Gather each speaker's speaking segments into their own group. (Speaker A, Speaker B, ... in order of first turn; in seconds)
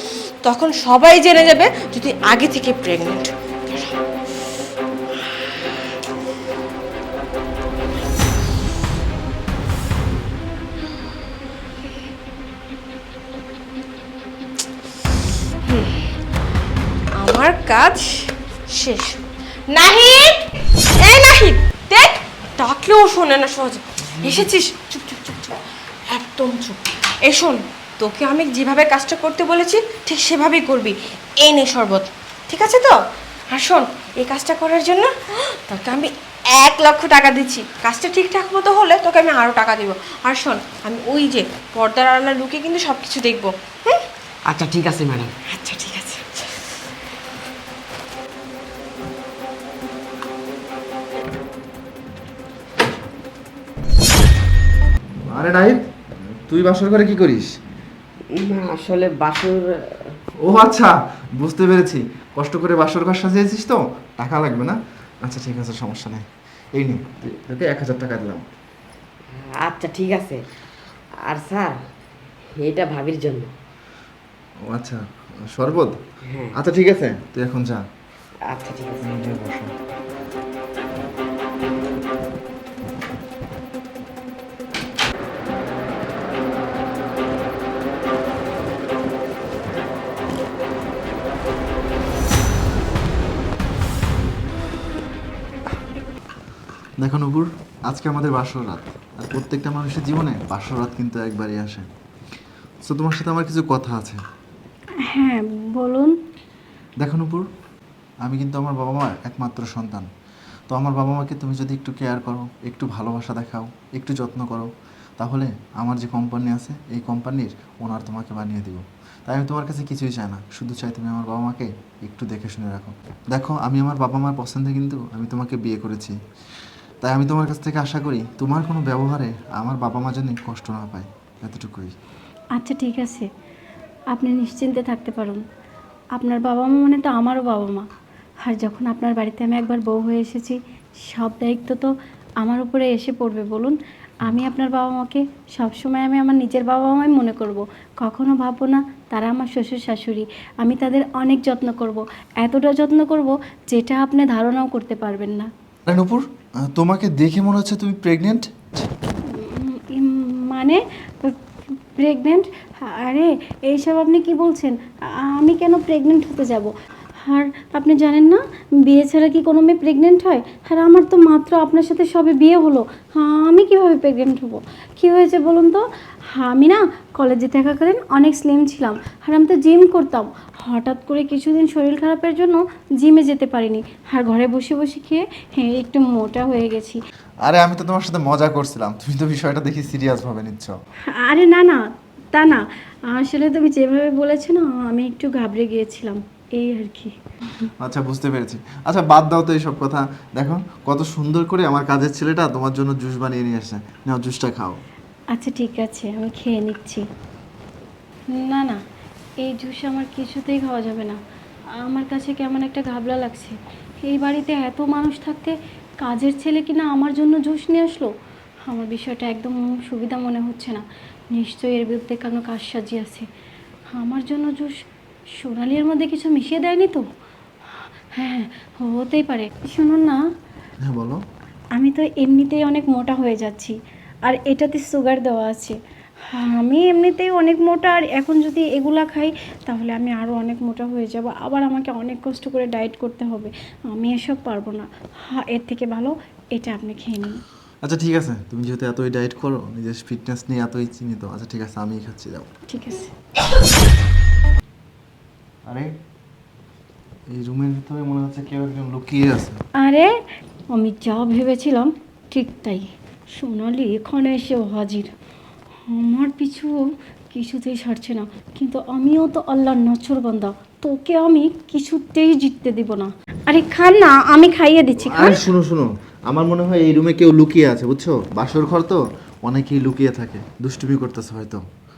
Speaker A: 0.4-4.0, 15.6-16.1, 17.2-19.2, 19.7-20.4, 21.0-33.0, 33.5-44.0, 45.5-46.6
Speaker B: 24.2-24.5, 44.5-45.3, 58.3-60.1, 69.3-70.4, 71.3-71.8, 72.5-73.5, 76.2-76.5, 78.5-79.2
Speaker C: 55.3-55.9, 56.5-57.6, 60.4-66.2, 66.8-68.4, 74.7-76.0, 76.5-77.8, 79.0-79.7, 97.0-101.9, 102.8-104.2, 107.0-107.5, 108.2-110.1, 110.7-126.1, 127.0-131.9, 155.9-158.7, 187.4-190.7, 197.8-204.8, 230.8-231.2, 247.8-252.5, 255.7-255.9, 257.3-259.6, 275.0-281.6
Speaker D: 105.1-106.1, 132.6-133.2, 134.1-135.4, 136.2-137.8, 138.4-140.6, 141.1-141.9, 142.4-155.5, 159.3-161.4, 162.0-166.7, 167.2-175.8, 176.3-187.0, 191.2-191.8, 192.3-197.7, 205.3-207.0, 208.4-208.8, 209.4-211.2, 211.8-218.1, 218.7-223.2, 223.9-224.8, 225.4-227.0, 228.2-230.2, 231.8-233.7, 234.3-235.8, 236.3-247.4, 252.7-253.1, 259.8-260.1, 260.7-265.1, 265.9-266.8, 267.3-275.4